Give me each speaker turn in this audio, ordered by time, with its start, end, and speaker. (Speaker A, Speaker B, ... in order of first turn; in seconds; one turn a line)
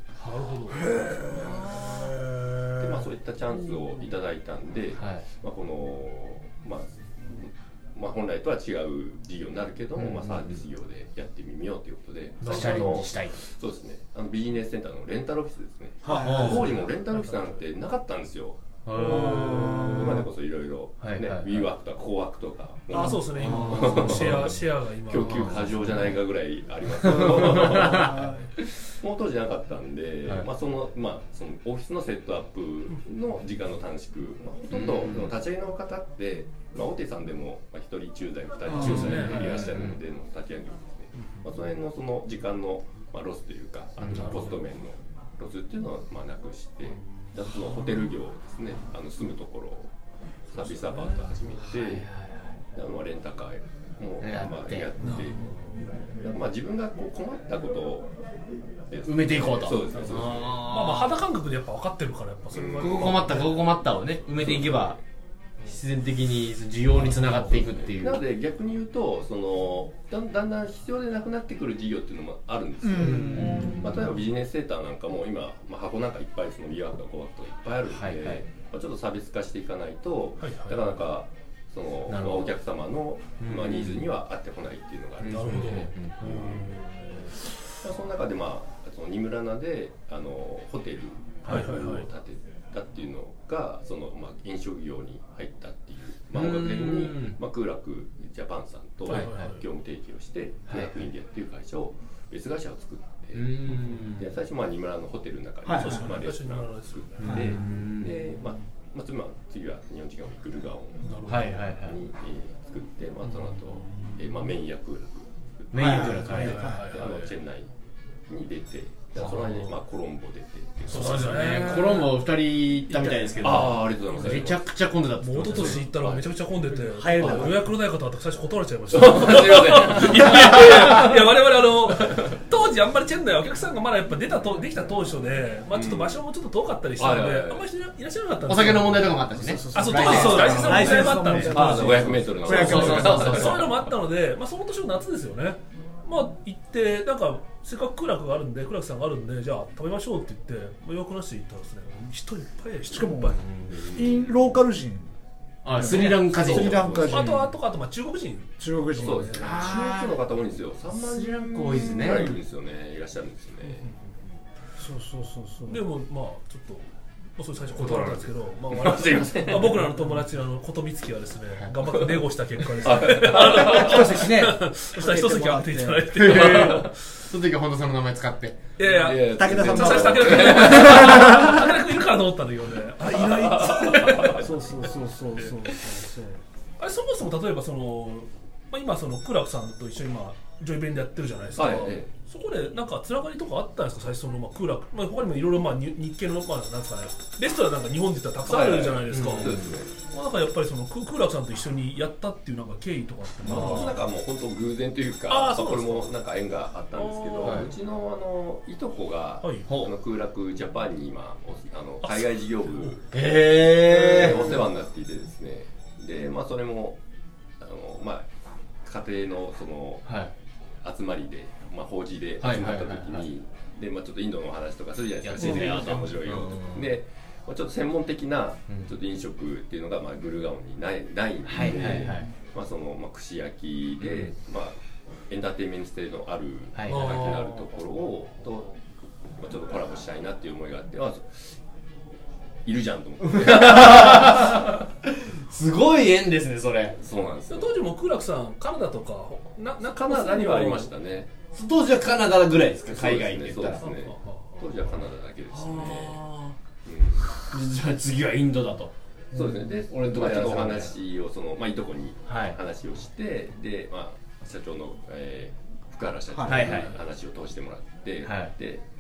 Speaker A: 0.2-0.9
Speaker B: 0.8-3.0
Speaker C: 1.3-1.9
Speaker D: 1.4-2.0
Speaker C: 2.8-28.3
Speaker D: 5.0-5.2
Speaker D: 10.0-10.6
Speaker A: 12.4-13.1
Speaker D: 12.4-13.4
Speaker B: 16.0-16.8
Speaker D: 16.1-16.8
Speaker A: 16.2-17.6
Speaker D: 18.9-20.3
Speaker A: 19.0-20.0
Speaker B: 19.0-20.3
Speaker D: 21.0-21.7
Speaker A: 22.9-26.0
Speaker D: 23.3-24.5
Speaker D: 25.2-25.9
Speaker D: 27.0-28.2
Speaker B: 27.7-28.4
Speaker C: 29.0-49.9
Speaker D: 34.7-35.3
Speaker B: 38.7-39.1
Speaker A: 38.7-39.7
Speaker D: 38.8-40.0
Speaker A: 41.2-41.5
Speaker D: 44.0-44.5
Speaker A: 44.0-44.6
Speaker C: 50.5-52.1
Speaker A: 50.5-51.3
Speaker D: 51.7-52.5
Speaker C: 52.7-55.5
Speaker D: 54.2-54.9
Speaker A: 55.0-55.9
Speaker C: 56.2-58.1
Speaker C: 58.9-60.7
Speaker D: 59.0-61.2
Speaker A: 60.0-63.7
Speaker C: 62.5-63.5
Speaker D: 62.8-65.0
Speaker C: 64.3-65.0
Speaker D: 65.6-68.2
Speaker C: 67.0-86.7
Speaker B: 72.8-73.9
Speaker D: 73.0-73.9
Speaker D: 77.9-78.4
Speaker A: 80.4-81.0
Speaker D: 82.1-82.5
Speaker D: 83.4-84.1
Speaker D: 85.2-86.2
Speaker A: 85.3-87.4
Speaker C: 87.8-117.7
Speaker A: 91.5-92.1
Speaker D: 96.3-97.4
Speaker A: 99.1-99.6
Speaker D: 99.1-99.5
Speaker D: 100.7-101.0
Speaker D: 103.3-104.3
Speaker B: 105.7-106.2
Speaker A: 105.7-107.4
Speaker D: 107.2-108.2
Speaker B: 107.2-107.6
Speaker A: 111.0-111.6
Speaker D: 111.2-112.0
Speaker D: 115.7-116.8
Speaker B: 115.8-116.8
Speaker A: 116.3-117.3
Speaker C: 118.3-121.9
Speaker A: 119.2-119.7
Speaker A: 120.9-122.1
Speaker D: 120.9-125.8
Speaker A: 123.0-124.4
Speaker C: 123.4-124.6
Speaker A: 125.2-139.2
Speaker C: 125.5-126.3
Speaker B: 126.8-127.7
Speaker C: 128.9-131.1
Speaker C: 131.9-132.3
Speaker C: 135.7-136.2
Speaker C: 137.0-137.7
Speaker D: 138.5-141.5
Speaker B: 139.3-143.4
Speaker A: 139.7-153.4
Speaker C: 140.7-143.9
Speaker D: 142.4-143.8
Speaker B: 152.9-153.4
Speaker D: 153.4-153.7
Speaker C: 153.7-154.3
Speaker B: 153.9-155.1
Speaker D: 155.6-157.1
Speaker B: 155.7-157.5
Speaker A: 155.8-159.5
Speaker C: 156.6-157.2
Speaker B: 158.6-159.4
Speaker C: 159.0-163.9
Speaker D: 159.4-160.2
Speaker D: 160.9-162.3
Speaker A: 163.6-164.2
Speaker B: 164.8-165.8
Speaker A: 165.7-177.1
Speaker C: 167.8-169.9
Speaker C: 171.9-172.2
Speaker C: 172.8-174.1
Speaker B: 173.4-176.4
Speaker D: 173.8-174.5
Speaker D: 176.1-178.6
Speaker A: 178.8-184.5
Speaker C: 178.8-181.7
Speaker B: 179.2-181.7
Speaker C: 183.2-184.5
Speaker B: 184.2-186.4
Speaker A: 186.8-204.0
Speaker C: 191.6-192.1
Speaker C: 198.5-199.9
Speaker D: 199.1-199.8
Speaker C: 203.4-213.1
Speaker D: 203.5-203.9
Speaker A: 205.3-206.1
Speaker A: 206.9-207.7
Speaker A: 209.4-209.7
Speaker D: 209.7-209.9
Speaker A: 212.0-213.0
Speaker D: 213.1-214.5
Speaker C: 213.7-217.0
Speaker A: 214.1-214.7
Speaker C: 217.6-218.3
Speaker C: 218.8-220.1
Speaker D: 220.1-220.3
Speaker C: 220.8-234.8
Speaker D: 222.4-223.3
Speaker D: 225.2-226.9
Speaker B: 225.4-225.8
Speaker D: 231.5-232.3
Speaker B: 231.6-232.3
Speaker D: 234.0-234.3
Speaker C: 235.3-238.8
Speaker D: 236.7-237.3
Speaker A: 236.9-237.9
Speaker C: 239.4-241.6
Speaker C: 242.7-244.8
Speaker D: 243.3-247.0
Speaker C: 247.0-247.8
Speaker A: 247.5-250.9
Speaker C: 249.8-251.3
Speaker D: 251.5-253.9
Speaker C: 252.9-256.2
Speaker A: 253.8-254.7
Speaker D: 255.5-256.6
Speaker C: 256.9-257.3
Speaker D: 257.4-258.9
Speaker B: 259.3-259.8
Speaker C: 259.3-268.8
Speaker D: 259.9-260.9
Speaker D: 262.3-262.6
Speaker B: 266.3-266.7
Speaker D: 266.4-266.9
Speaker D: 268.2-268.5